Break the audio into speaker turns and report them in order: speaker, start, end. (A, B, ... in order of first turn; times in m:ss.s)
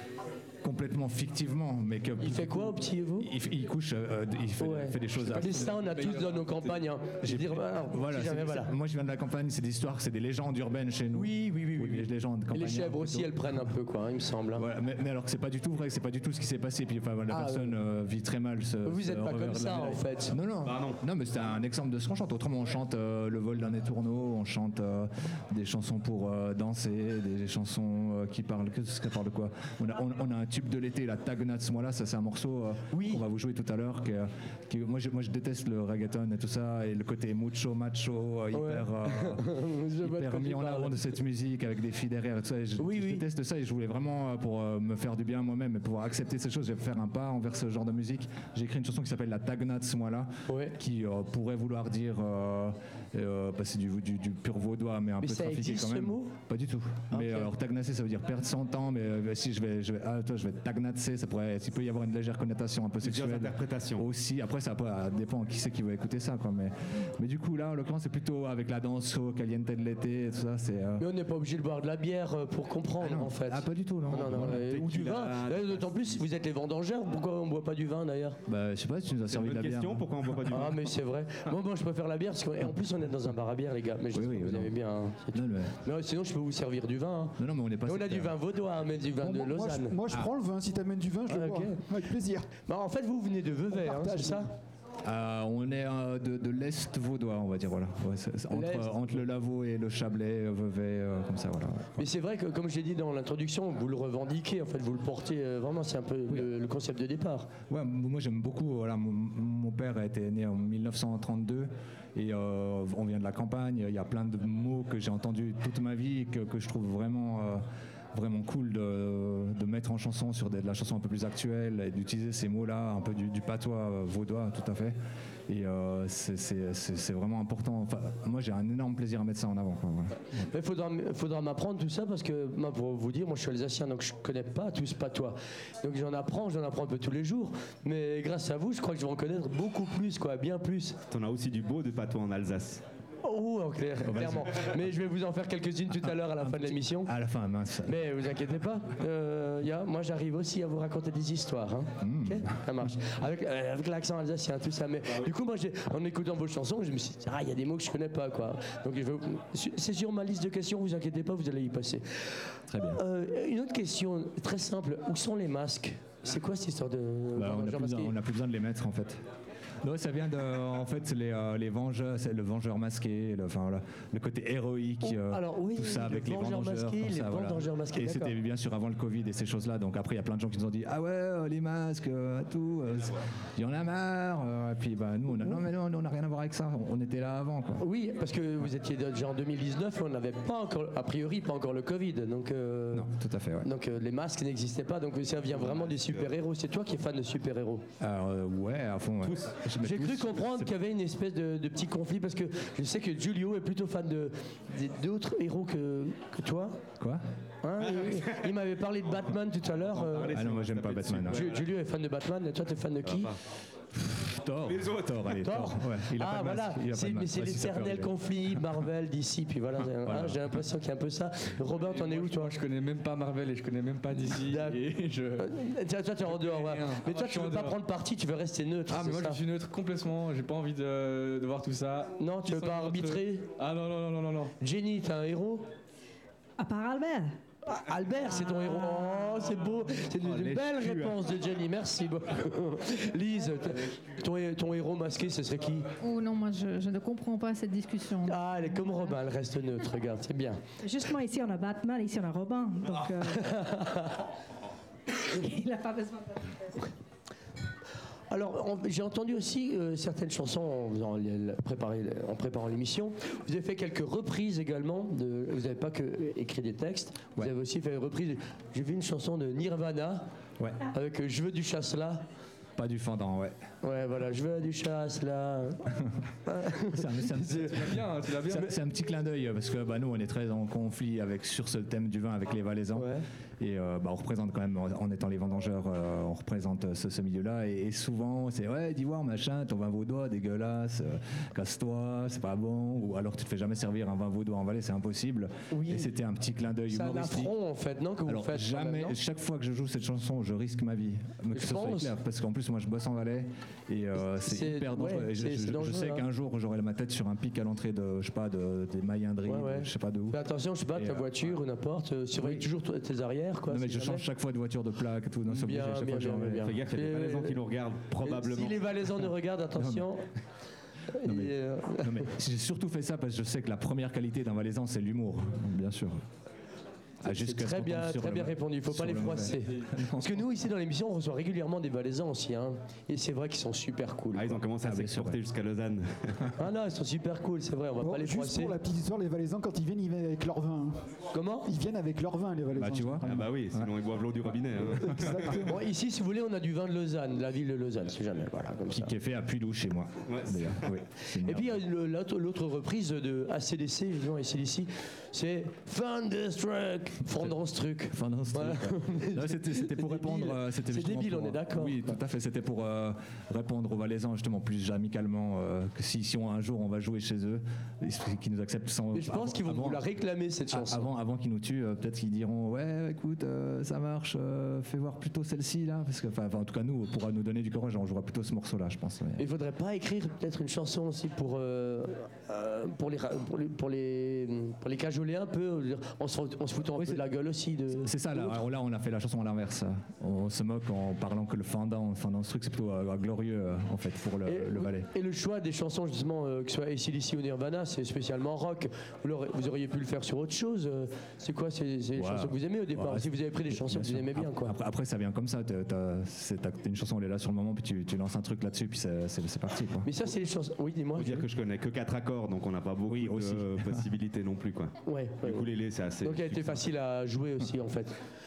0:00.6-0:05.8 A
0:02.2-0:03.3 B
0:04.6-0:08.7 B
0:05.7-0:06.8 C
0:07.2-0:13.6 A
0:11.1-0:14.6 B
0:14.6-1:11.0 A
0:17.3-0:17.8 B
0:18.8-0:20.4 B
0:20.6-0:21.0 D
0:32.9-0:33.2 B
0:38.5-0:41.1 B
0:42.8-0:43.2 B
0:50.5-0:50.8 B
0:55.2-0:56.3 B
0:57.1-0:57.5 B
1:03.0-1:04.1 D
1:11.0-1:18.4 B
1:13.0-1:14.9 A
1:14.1-1:16.2 D
1:18.5-1:20.4 A
1:19.3-1:20.9 D
1:20.5-1:30.0 B
1:24.1-1:24.8 A
1:25.3-1:25.8 A
1:27.4-1:28.4 A
1:29.2-1:32.5 E
1:31.3-1:31.8 B
1:32.7-1:34.5 B
1:33.7-1:34.5 E
1:35.0-1:42.0 A
1:38.5-1:39.2 B
1:42.0-1:47.5 B
1:47.7-2:05.0 A
2:05.5-2:10.5 A
2:10.5-2:21.0 B
2:21.1-2:22.8 D
2:23.2-2:27.2 B
2:24.1-2:24.8 A
2:26.0-2:28.0 A
2:27.9-2:48.2 B
2:32.0-2:32.9 A
2:42.7-2:43.0 A
2:47.3-2:49.2 A
2:49.8-3:07.8 A
2:55.0-2:58.4 B
3:07.8-3:13.1 B
3:12.9-3:13.7 A
3:13.6-3:17.8 B
3:15.6-3:16.3 D
3:18.0-3:20.7 A
3:19.2-3:19.6 D
3:19.8-3:26.8 B
3:27.6-3:30.4 B
3:27.9-3:28.5 D
3:29.6-3:31.7 D
3:30.3-3:31.5 A
3:31.3-3:33.3 B
3:33.0-3:33.4 D
3:34.0-3:38.8 A
3:34.6-3:35.4 D
3:35.4-3:42.6 B
3:40.0-3:40.6 A
3:41.7-3:45.6 C
3:44.4-3:44.8 B
3:45.4-3:49.4 B
3:46.2-3:47.8 C
3:48.9-3:54.5 C
3:52.2-3:53.5 B
3:54.6-3:55.7 B
3:56.6-3:57.4 F
3:57.7-4:05.9 B
3:58.7-3:59.0 F
4:06.0-4:09.0 G
4:08.2-4:10.6 B
4:10.8-4:13.6 F
4:13.4-4:14.2 B
4:15.3-4:16.9 F
4:18.3-4:30.2 B
4:30.9-4:32.2 B
4:32.8-4:33.6 A
4:33.8-4:35.9 B
4:36.5-4:38.0 B
4:36.8-4:57.5 A
4:37.6-4:38.7 C
4:43.0-4:43.2 B
4:55.7-4:56.1 B
4:56.9-4:59.2 B
4:58.2-5:10.4 A
5:01.5-5:02.2 B
5:04.3-5:06.3 B
5:09.5-5:14.3 B
5:10.9-5:11.6 A
5:12.4-5:12.7 A
5:13.7-5:16.7 A
5:15.5-5:17.6 B
5:16.6-5:19.0 D
5:18.2-5:20.2 B
5:19.8-5:20.1 A
5:21.1-5:22.3 B
5:21.2-5:26.2 A
5:27.2-5:30.5 A
5:27.2-5:34.6 B
5:34.3-5:36.5 D
5:34.8-5:35.4 A
5:36.6-5:38.8 B
5:38.0-5:41.0 E
5:41.3-5:41.7 B
5:41.7-5:43.5 E
5:42.8-5:43.9 A
5:43.3-5:45.6 D
5:45.0-5:45.7 E
5:45.5-5:49.1 B
5:48.9-5:51.8 A
5:50.3-5:50.9 D
5:51.3-6:02.2 B
5:58.1-6:10.1 A
6:09.1-6:11.1 B
6:10.7-6:19.5 A
6:19.4-6:28.6 B
6:27.0-6:27.3 A
6:27.9-6:35.1 A
6:34.5-6:44.7 B
6:42.2-6:50.1 A
6:50.0-6:51.5 B
6:51.1-6:56.9 D
6:53.1-6:54.1 A
6:55.0-6:55.7 B
6:56.2-6:58.2 B